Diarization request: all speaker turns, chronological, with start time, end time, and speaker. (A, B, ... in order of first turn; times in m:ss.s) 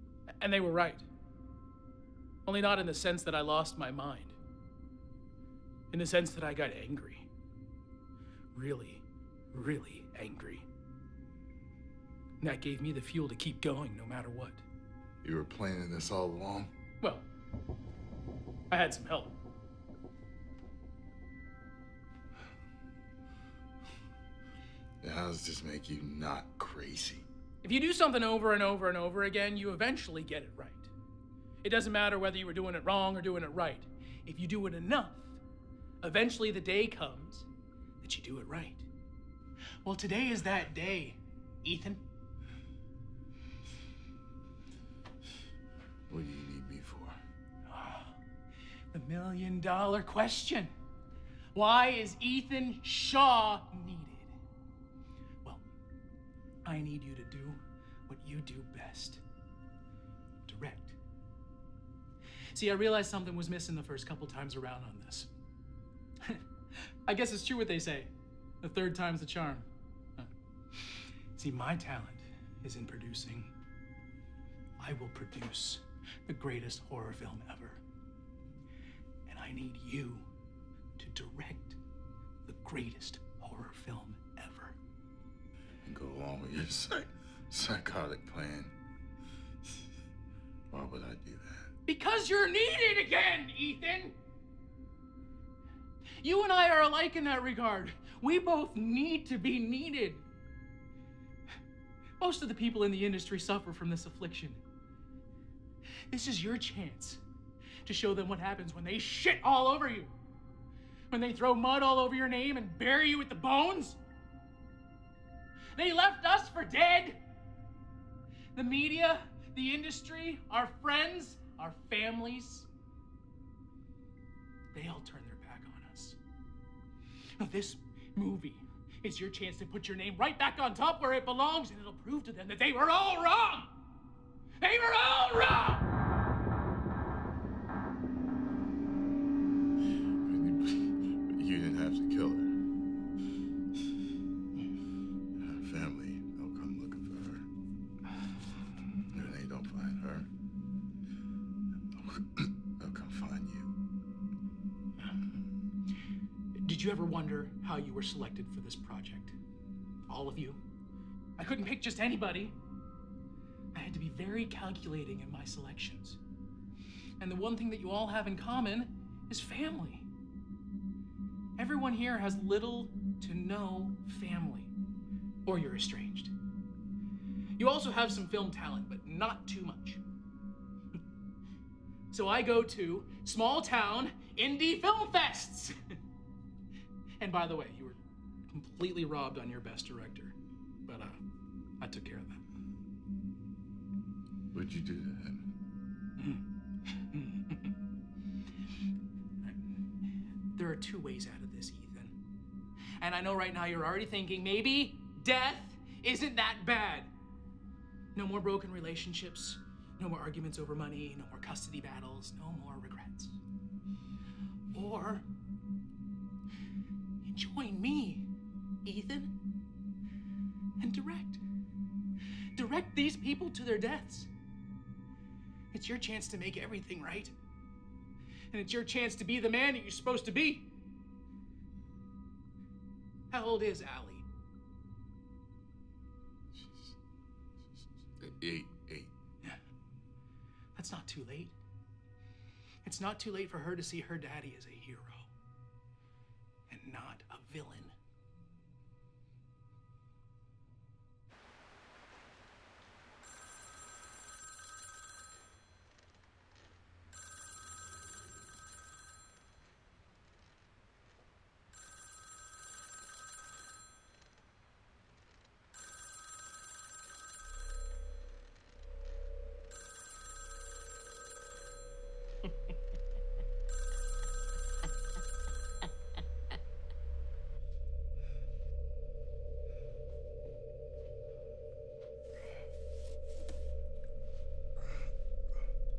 0:00.4-0:01.1 A
0:02.4-0:04.4 A
0:05.9-0:07.3 A
0:08.5-0:10.6 A
0:12.4-0:14.6 A
0:15.2-0:16.7 B
0:17.0-0:17.2 A
0:18.7-0:19.3 A
0:25.0-0:27.2 B
0:27.6-0:30.9 A
0:31.6-0:35.4 A
0:36.0-0:37.5 A
0:38.0-0:38.8 A
0:39.8-0:42.0 A
0:46.1-0:47.2 B
0:47.6-0:48.2 A
0:48.9-0:50.7 A
0:51.5-0:54.3 A
0:56.6-0:59.2 A
1:00.5-1:01.0 A
1:02.5-1:05.3 A
1:07.0-1:08.1 A
1:08.6-1:09.6 A
1:10.2-1:13.5 A
1:14.8-1:17.8 A
1:19.2-1:20.3 A
1:21.0-1:21.8 A
1:22.4-1:24.7 A
1:25.8-1:28.7 B
1:30.7-1:31.7 B
1:31.8-1:34.1 A
1:36.2-1:40.2 A
1:42.2-1:44.6 A
1:46.1-1:47.2 A
1:47.8-1:50.1 A
1:51.1-1:54.0 A
1:55.7-1:57.2 A
1:58.6-2:02.7 A
2:04.7-2:06.2 A
2:07.4-2:13.7 A
2:14.6-2:15.8 A
2:20.2-2:22.5 B
2:25.4-2:27.5 B
2:29.1-2:30.3 B
2:32.0-2:33.7 B
2:36.5-2:39.3 A
2:40.1-2:40.6 A
2:41.4-2:42.6 A
2:43.7-2:46.2 A
2:47.2-2:50.1 A
2:51.6-2:54.7 A
2:55.4-2:56.3 A
2:57.6-3:00.0 A
3:02.1-3:06.0 A
3:07.2-3:08.0 A
3:08.5-3:10.3 A
3:10.8-3:11.2 A
3:11.8-3:12.4 A
3:14.5-3:15.5 B
3:16.2-3:16.4 A
3:17.1-3:17.7 A
3:19.4-3:19.8 A
3:20.5-3:22.1 A
3:23.0-3:27.1 A
3:28.1-3:33.4 A
3:34.7-3:35.2 A
3:37.2-3:38.3 A
3:38.8-3:39.3 A
3:40.8-3:41.4 A
3:42.6-3:44.3 A
3:45.7-3:47.3 A
3:48.5-3:50.7 A
3:53.3-3:54.2 A
3:56.5-3:57.0 B
3:58.2-3:59.1 B
4:00.7-4:01.6 A
4:02.8-4:05.3 A
4:06.7-4:07.9 A